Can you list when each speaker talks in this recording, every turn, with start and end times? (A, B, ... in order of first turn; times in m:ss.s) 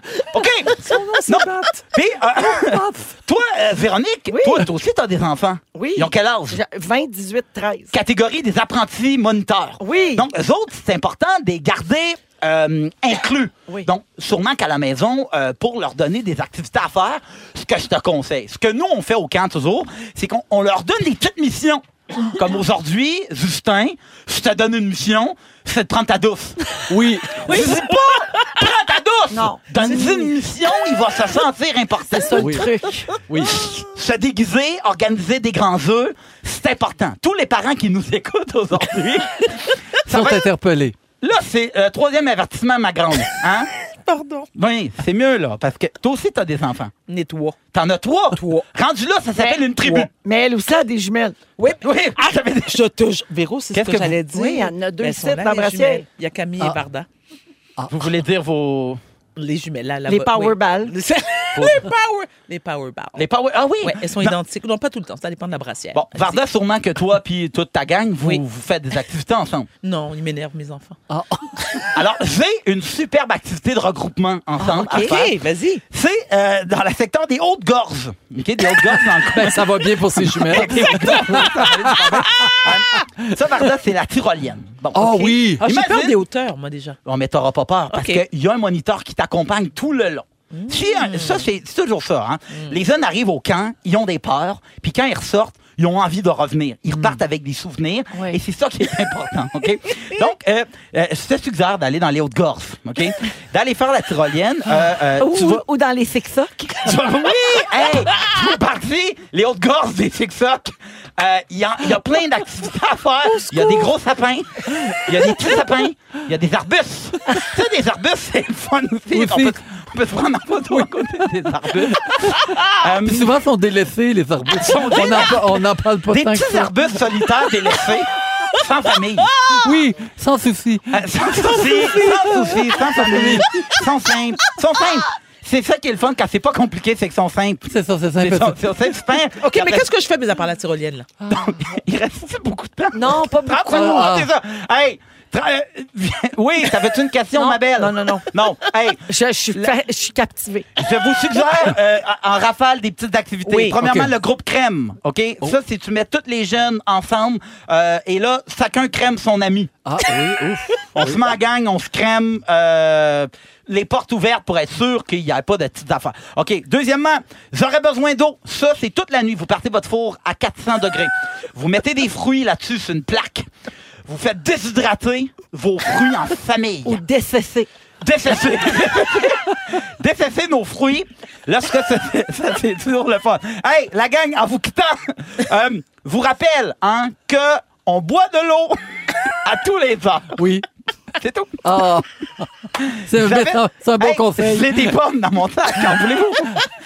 0:00.3-0:06.6 A
0:00.7-0:01.8 B
0:04.3-0:04.7 C
0:05.7-0:07.9 C
0:07.9-0:26.7 A
0:09.8-0:10.3 C
0:26.9-0:27.7 D
0:27.4-0:32.5 A
0:27.5-0:28.5 B
0:29.3-0:30.3 C
0:32.1-0:33.1 C
0:32.4-0:32.7 D
0:33.3-0:33.6 D
0:33.4-0:40.5 A
0:40.1-0:41.0 D
0:41.2-0:43.7 A
0:44.0-0:44.5 B
0:44.5-0:46.9 A
0:47.1-0:47.6 B
0:47.7-0:50.1 A
0:48.3-0:48.6 B
0:49.4-0:51.4 C
0:51.6-0:57.1 B
0:51.8-0:52.8 A
0:53.7-0:54.2 A
0:54.3-0:56.0 C
0:57.9-0:59.0 A
0:59.4-1:03.2 B
1:00.1-1:00.9 C
1:03.2-1:04.4 A
1:03.8-1:06.4 B
1:05.9-1:09.7 A
1:09.8-1:11.0 B
1:11.1-1:11.6 D
1:11.9-1:15.3 A
1:14.6-1:15.8 B
1:15.9-1:26.2 A
1:19.2-1:22.8 D
1:24.9-1:25.6 D
1:25.6-1:27.0 B
1:27.0-1:45.6 A
1:27.9-1:28.2 B
1:30.5-1:31.5 B
1:45.2-1:47.0 C
1:46.8-2:03.4 A
1:53.5-1:53.8 B
1:59.1-1:59.6 D
2:01.7-2:06.9 D
2:04.6-2:09.3 A
2:09.6-2:13.5 D
2:10.9-2:19.9 A
2:17.7-2:18.6 D
2:19.4-2:21.1 B
2:21.3-2:29.7 A
2:22.9-2:24.1 C
2:23.7-2:24.3 D
2:27.3-2:28.3 C
2:29.1-2:30.7 C
2:30.8-2:39.8 A
2:33.4-2:33.8 C
2:33.8-2:34.1 D
2:39.8-2:41.3 D
2:40.9-2:53.5 A
2:54.0-2:57.0 A
2:56.8-2:57.7 C
2:58.0-3:08.8 A
3:09.4-3:10.5 A
3:10.3-3:10.6 D
3:11.2-3:11.7 A
3:11.6-3:14.9 D
3:12.8-3:16.6 A